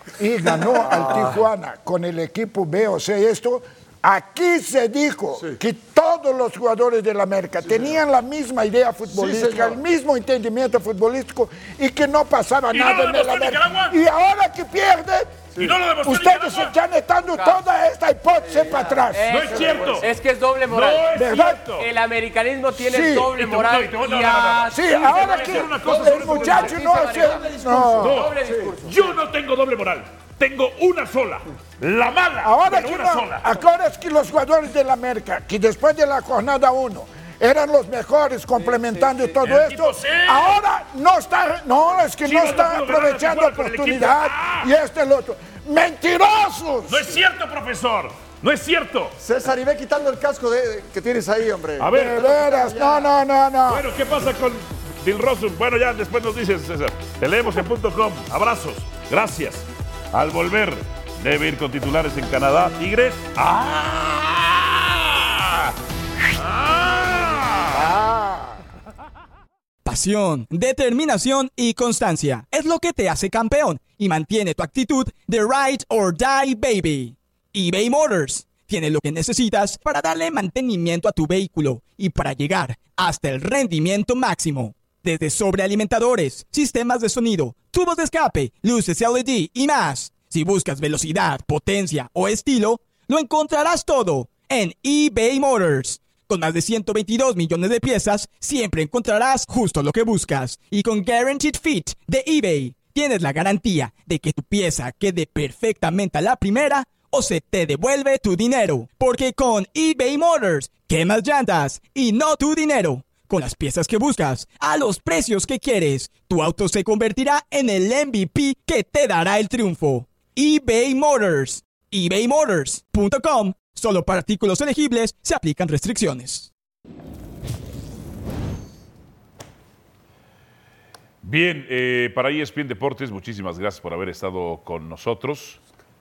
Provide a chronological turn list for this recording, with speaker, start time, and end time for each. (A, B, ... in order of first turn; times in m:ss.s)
0:00.2-0:15.5 A
0:07.7-0:07.9 B
0:09.1-0:09.8 B
0:12.7-0:14.0 C
0:15.6-0:16.7 C
0:16.0-0:19.3 A
0:17.3-0:17.6 D
0:19.1-0:21.2 D
0:19.3-0:20.1 C
0:19.5-0:20.0 B
0:20.7-0:21.9 C
0:21.1-0:21.6 A
0:21.8-0:29.2 D
0:22.8-0:23.4 A
0:23.3-0:26.8 C
0:24.6-0:28.3 A
0:28.0-0:33.5 C
0:28.4-0:28.7 B
0:32.4-0:47.2 A
0:38.6-0:39.3 D
0:39.4-0:40.6 C
0:42.2-0:44.7 C
0:46.9-0:49.2 C
0:49.2-0:53.1 B
0:51.8-0:52.2 C
0:51.9-0:53.9 A
0:53.7-1:05.7 C
1:06.4-1:07.9 C
1:07.7-1:08.6 A
1:09.8-2:06.5 E
2:11.2-2:15.6 C